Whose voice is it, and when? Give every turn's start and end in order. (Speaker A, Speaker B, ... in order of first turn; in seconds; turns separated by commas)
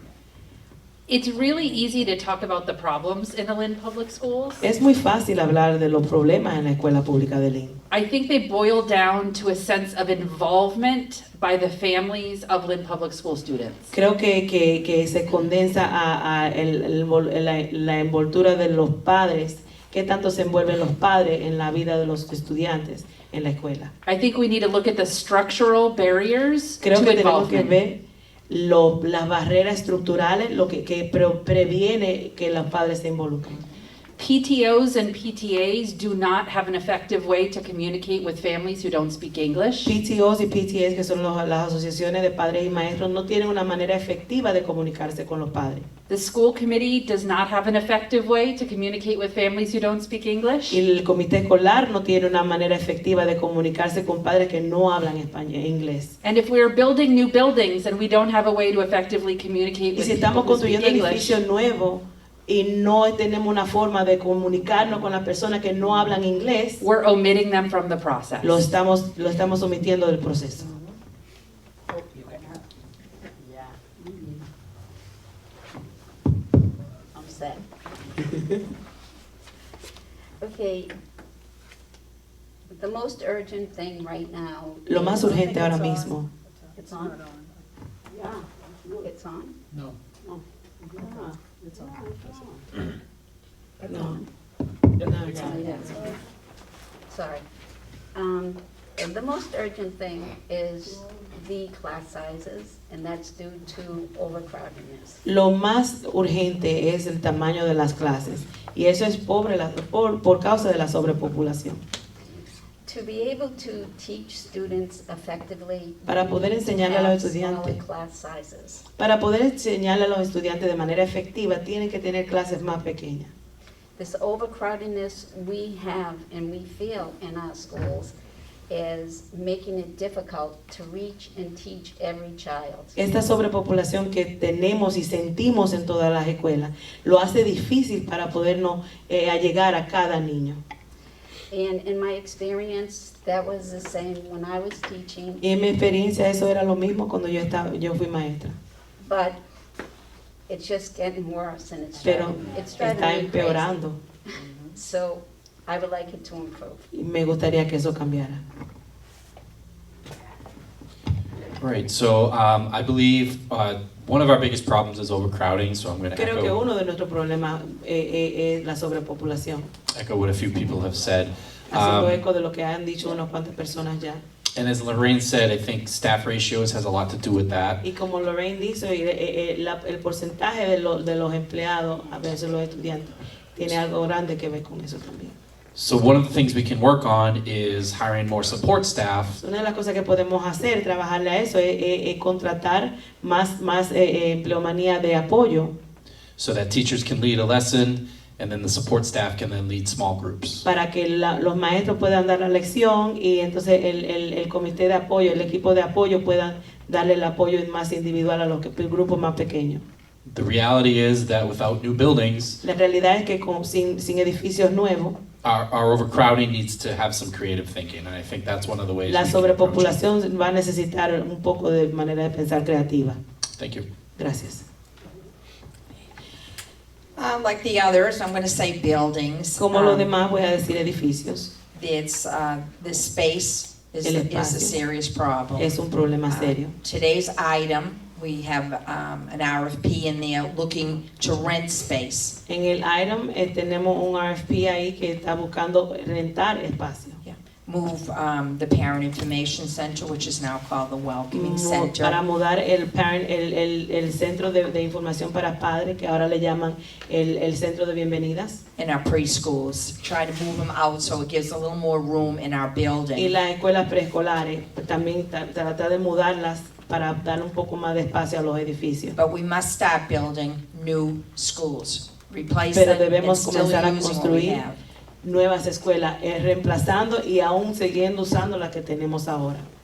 Speaker A: 1.1-4.6, Speaker B: 4.6-7.8, Speaker A: 7.9-13.9, Speaker B: 13.9-23.9, Speaker A: 24.1-27.8, Speaker B: 26.8-28.0, Speaker B: 28.5-33.6, Speaker A: 34.2-40.0, Speaker B: 39.8-45.9, Speaker A: 46.1-50.8, Speaker B: 50.7-56.1, Speaker A: 56.2-61.4, Speaker B: 59.9-66.8, Speaker A: 66.8-68.7, Speaker B: 68.4-70.7, Speaker C: 74.0-74.4, Speaker C: 77.1-77.6, Speaker C: 80.4-80.9, Speaker C: 82.7-85.7, Speaker B: 84.8-86.3, Speaker C: 86.8-87.1, Speaker C: 88.2-89.5, Speaker C: 91.0-92.5, Speaker B: 93.8-94.2, Speaker B: 95.0-95.5, Speaker C: 95.4-96.2, Speaker C: 97.1-97.4, Speaker C: 98.1-105.2, Speaker B: 105.2-111.8, Speaker C: 112.8-118.8, Speaker B: 116.1-117.8, Speaker B: 119.0-123.3, Speaker C: 124.0-128.1, Speaker C: 128.7-132.9, Speaker B: 132.9-140.6, Speaker C: 141.5-145.4, Speaker B: 145.4-148.6, Speaker C: 149.0-149.3, Speaker C: 150.5-153.7, Speaker D: 152.0-152.5, Speaker B: 152.0-154.0, Speaker C: 154.8-156.9, Speaker B: 156.9-158.4, Speaker E: 161.6-166.5, Speaker B: 166.1-169.7, Speaker E: 169.9-172.2, Speaker B: 171.7-174.2, Speaker E: 174.6-177.8, Speaker B: 177.8-185.3, Speaker E: 185.7-189.4, Speaker B: 189.4-195.7, Speaker E: 196.4-200.6, Speaker B: 200.6-209.8, Speaker E: 210.2-212.6, Speaker B: 212.6-215.2, Speaker E: 215.4-219.9, Speaker B: 219.1-223.2, Speaker E: 223.6-223.8, Speaker B: 224.2-224.6, Speaker D: 227.2-230.1, Speaker B: 229.6-231.5, Speaker D: 231.8-235.6, Speaker B: 234.0-234.8, Speaker B: 235.6-236.7, Speaker D: 236.3-242.3, Speaker B: 242.5-247.2, Speaker D: 247.2-252.1, Speaker B: 251.3-258.6, Speaker D: 258.8-263.3, Speaker B: 263.1-269.1, Speaker D: 269.2-274.8, Speaker B: 272.7-274.6, Speaker B: 275.2-279.6